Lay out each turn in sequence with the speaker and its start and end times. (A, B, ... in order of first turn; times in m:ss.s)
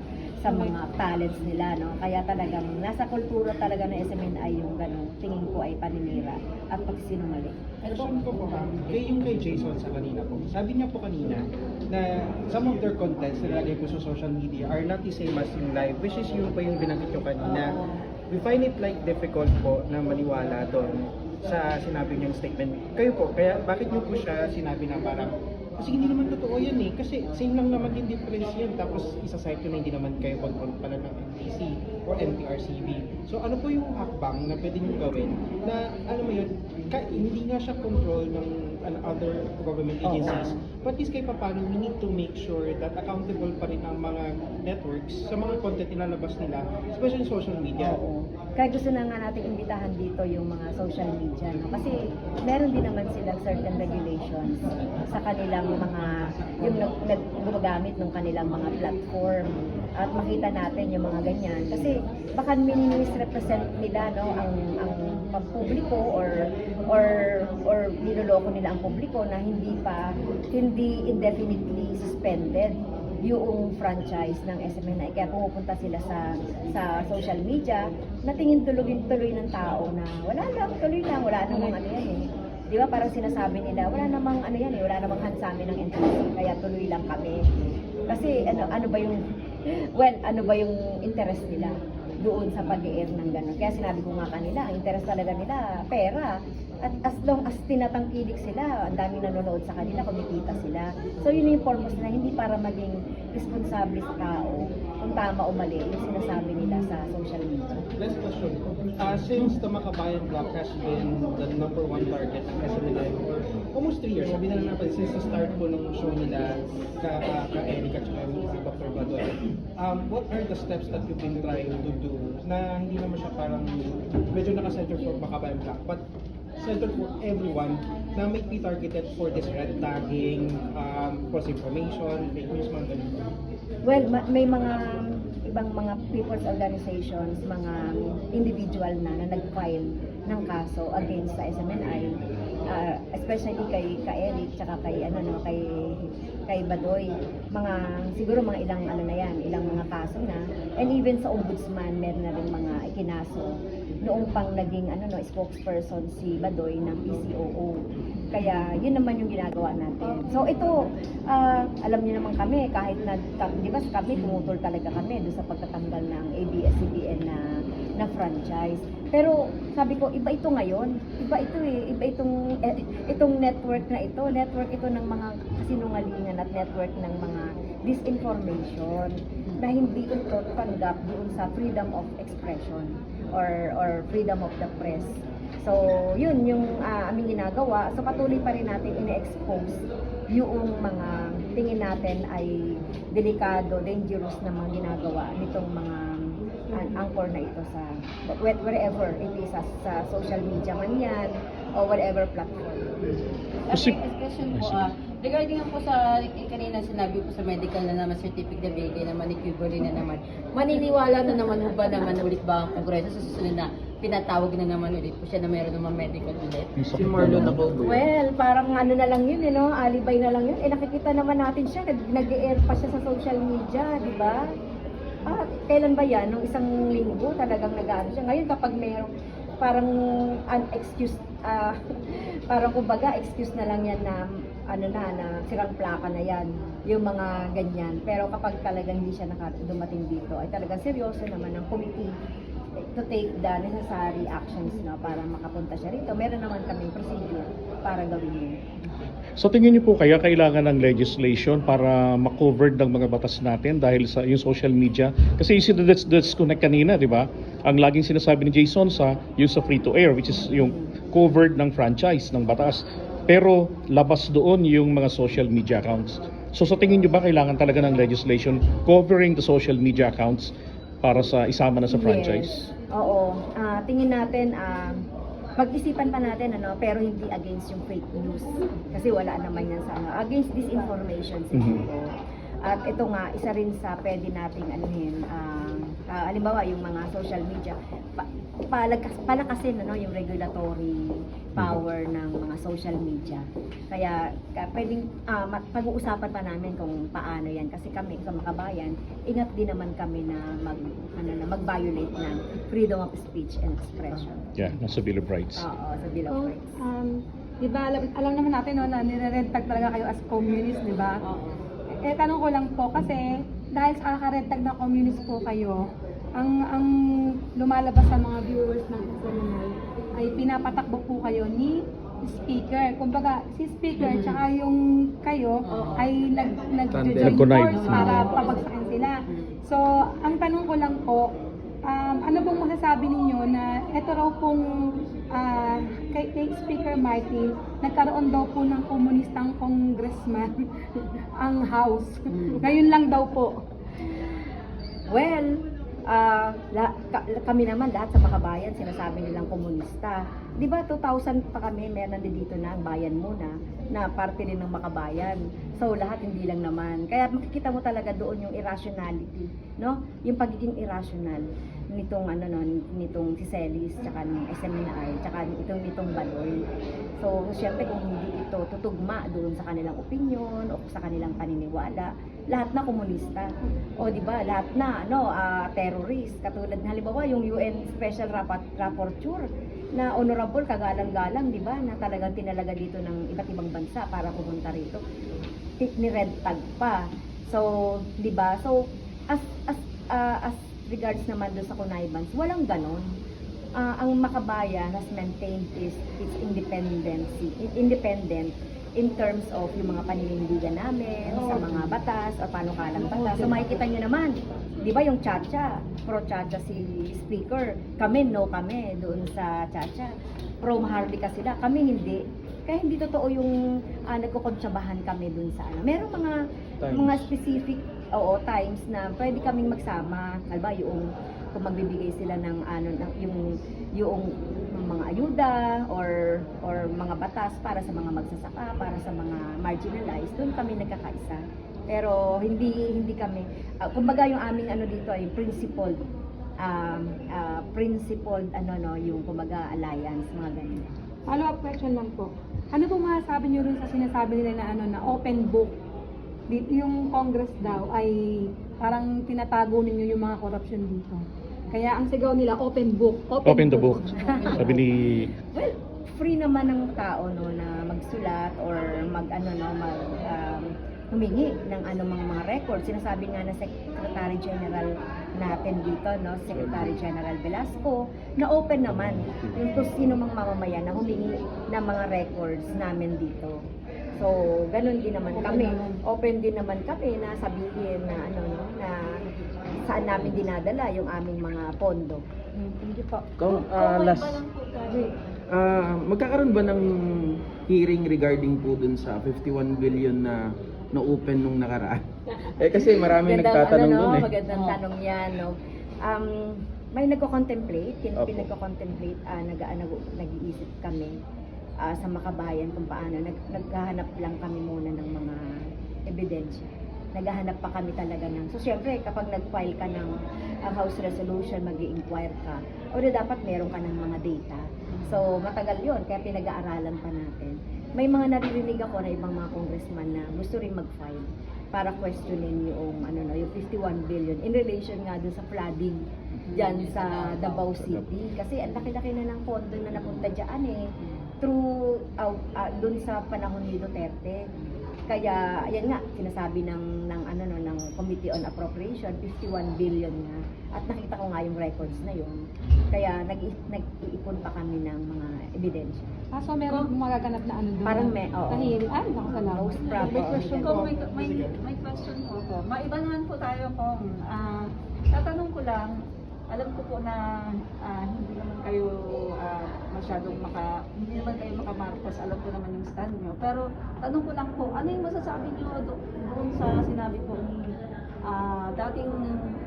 0:00.4-0:07.6 A
0:07.8-0:47.9 B
0:17.4-0:17.9 C
0:40.0-0:40.6 A
0:47.8-1:27.4 A
1:28.1-1:47.8 A
1:48.0-2:06.0 B
2:06.6-2:13.3 B
2:13.8-2:22.1 A
2:22.7-2:37.8 A
2:38.3-2:47.4 A
2:48.0-3:12.5 A
3:13.1-3:16.0 A
3:16.7-3:23.1 A
3:23.7-3:24.0 D
3:23.9-3:30.2 E
3:24.5-3:24.8 D
3:26.7-3:27.3 C
3:28.0-3:28.5 C
3:29.3-3:31.9 C
3:30.7-3:36.6 E
3:32.6-3:33.2 C
3:36.8-3:37.6 D
3:36.9-3:38.0 C
3:37.6-3:44.4 A
3:45.3-4:02.1 A
4:02.9-4:08.6 A
4:09.4-4:32.6 D
4:20.3-4:20.9 A
4:31.9-4:35.0 A
4:35.6-4:42.0 A
4:41.5-4:41.8 D
4:42.6-5:04.4 A
5:04.6-5:05.6 D
5:05.6-5:06.7 A
5:06.3-5:11.2 F
5:12.0-5:15.8 F
5:16.4-5:31.3 F
5:25.8-5:26.1 C
5:26.9-5:28.0 C
5:27.2-5:28.3 D
5:27.8-5:29.0 E
5:31.8-5:43.6 F
5:45.1-6:06.6 A
6:07.2-6:13.5 A
6:14.0-6:19.4 A
6:19.9-6:25.0 A
6:25.8-6:28.8 A
6:29.3-6:33.0 A
6:33.8-6:50.1 A
6:43.3-6:43.6 F
6:50.6-6:53.5 A
6:54.1-6:56.3 A
6:56.9-7:03.4 A
7:04.0-7:16.0 A
7:16.6-7:20.9 A
7:21.3-7:25.8 F
7:26.5-7:34.8 F
7:33.4-7:35.3 D
7:34.1-7:34.6 A
7:35.5-7:53.6 A
7:49.3-7:49.8 D
7:54.2-7:59.1 A
7:55.4-7:55.9 F
7:59.8-8:02.2 A
8:02.6-8:05.1 G
8:03.4-8:04.4 C
8:05.5-8:06.8 C
8:07.7-8:10.4 C
8:10.9-8:12.0 C
8:12.6-8:14.3 C
8:12.6-8:21.1 A
8:18.2-8:18.5 C
8:21.8-8:25.4 A
8:26.1-8:30.1 A
8:30.7-8:46.0 A
8:46.5-8:50.8 A
8:46.6-8:47.1 C
8:51.4-8:54.4 A
8:55.1-9:02.4 A
9:02.9-9:06.1 A
9:06.3-9:09.8 F
9:07.8-9:08.8 A
9:09.4-9:10.9 A
9:09.9-9:16.0 G
9:10.1-9:11.6 B
9:16.5-9:17.2 G
9:17.8-9:29.4 G